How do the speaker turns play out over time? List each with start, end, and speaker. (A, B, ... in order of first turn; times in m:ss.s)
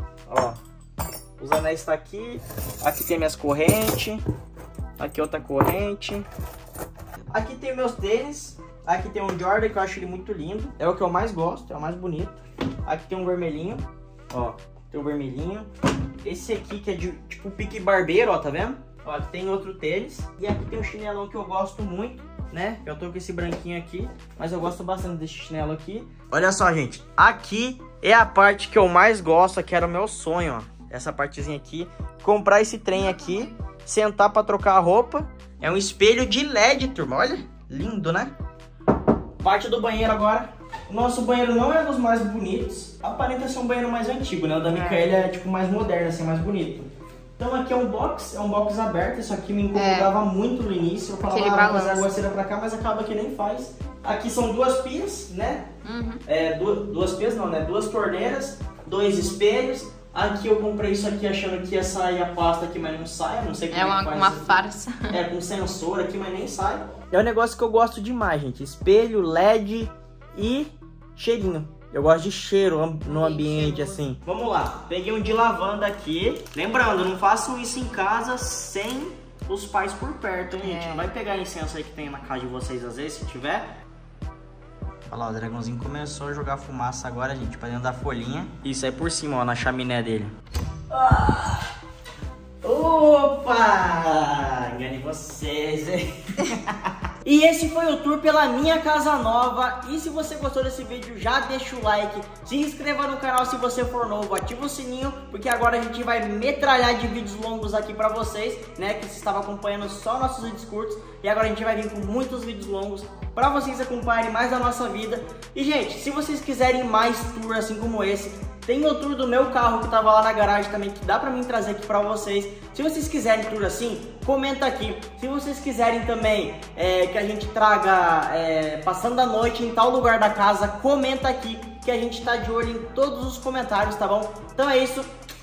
0:00.3-0:00.6 A
0:01.4-0:04.2 A
0:05.0-0:06.3 A
0:07.3-0:15.7 A
0:16.2-0:38.3 A
0:32.9-0:33.5 B
0:39.4-0:55.7 A
0:44.7-0:45.2 B
0:49.7-0:50.1 B
0:51.2-0:52.1 B
0:55.8-0:56.2 B
0:56.3-1:04.5 A
1:03.7-1:05.2 B
1:05.1-1:23.7 A
1:13.1-1:14.0 B
1:20.6-1:21.1 B
1:25.1-1:30.3 A
1:30.9-1:31.7 A
1:32.6-2:15.1 A